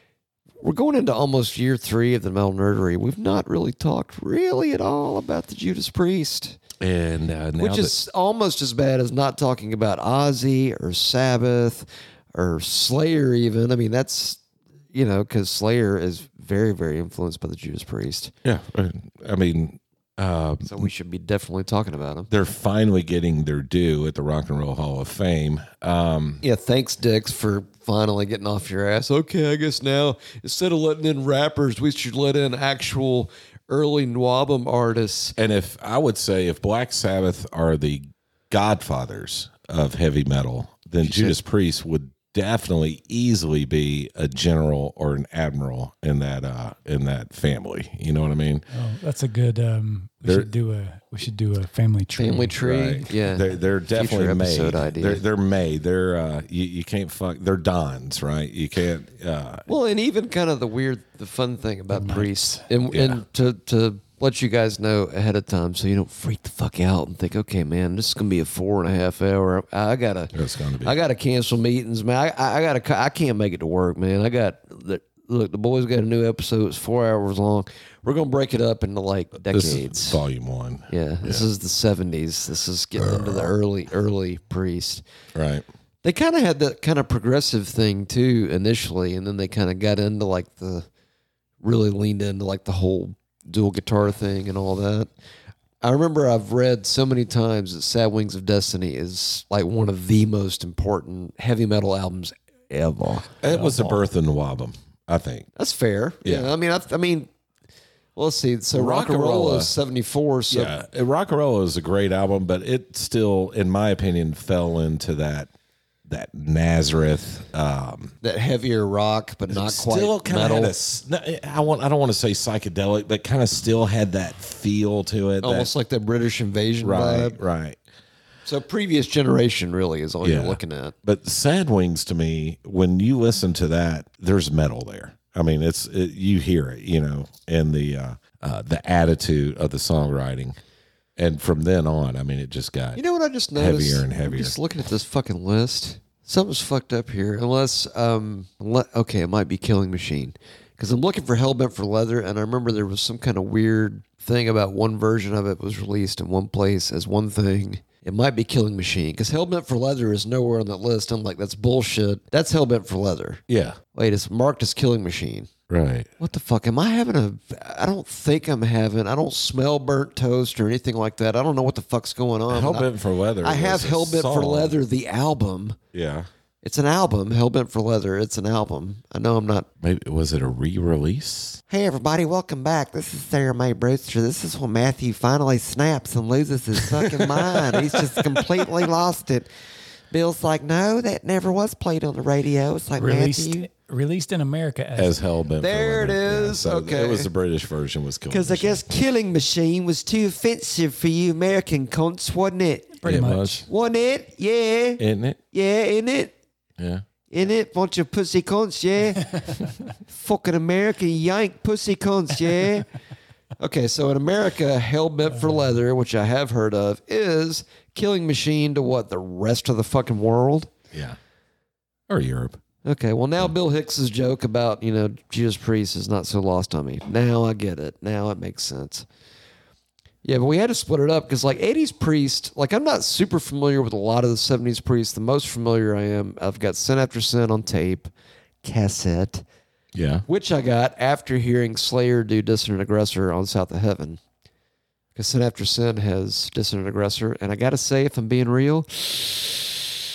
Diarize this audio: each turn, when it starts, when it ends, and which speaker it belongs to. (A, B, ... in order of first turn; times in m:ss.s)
0:00.6-0:06.6 A
0:06.8-0:08.0 B
0:07.6-0:14.4 A
0:14.9-0:18.3 A
0:18.4-0:20.9 B
0:20.6-0:22.3 A
0:22.3-0:26.4 B
0:26.4-0:35.4 A
0:35.4-0:48.6 B
0:41.0-0:41.4 A
0:48.7-0:52.6 C
0:50.2-0:50.5 B
0:52.2-0:55.2 A
0:52.6-0:59.7 B
0:59.7-1:20.2 A
1:01.9-1:02.6 C
1:02.9-1:03.2 B
1:10.3-1:11.0 B
1:19.4-1:21.5 B
1:20.9-1:25.0 A
1:23.0-1:23.4 B
1:25.4-1:25.7 B
1:26.0-1:30.9 A
1:31.6-1:35.1 A
1:35.8-1:43.4 A
1:43.4-1:45.5 B
1:45.6-1:47.3 A
1:46.2-1:46.5 B
1:48.2-1:50.8 A
1:48.7-1:49.7 B
1:50.5-1:55.5 B
1:56.1-1:58.1 B
1:58.2-2:00.8 A
1:59.5-2:05.7 B
2:05.4-2:07.4 A
2:06.8-2:07.8 B
2:08.5-2:11.0 A
2:10.2-2:20.6 B
2:21.2-2:23.0 B
2:23.0-2:43.4 A
2:23.6-2:24.6 B
2:43.5-2:43.8 B
2:43.9-2:45.5 A
2:45.7-2:46.1 B
2:46.2-2:52.9 A
2:52.5-2:54.8 B
2:53.4-2:55.8 A
2:55.9-2:56.3 B
2:56.6-2:59.7 A
2:59.8-3:01.6 B
3:01.7-3:09.5 A
3:06.9-3:08.8 B
3:10.1-3:13.7 A
3:13.0-3:15.2 C
3:15.0-3:18.8 B
3:15.6-3:17.3 A
3:18.3-3:23.0 A
3:23.0-3:23.7 C
3:23.0-3:23.7 B
3:23.7-3:26.3 A
3:25.0-3:25.4 B
3:26.8-3:27.0 B
3:27.3-3:29.4 A
3:30.0-3:32.9 A
3:33.6-3:40.7 A
3:42.1-3:42.6 B
3:42.8-3:49.1 A
3:50.2-3:58.1 A
3:58.6-3:59.4 A
3:59.9-4:00.2 B
4:00.3-4:04.2 A
4:05.2-4:09.8 A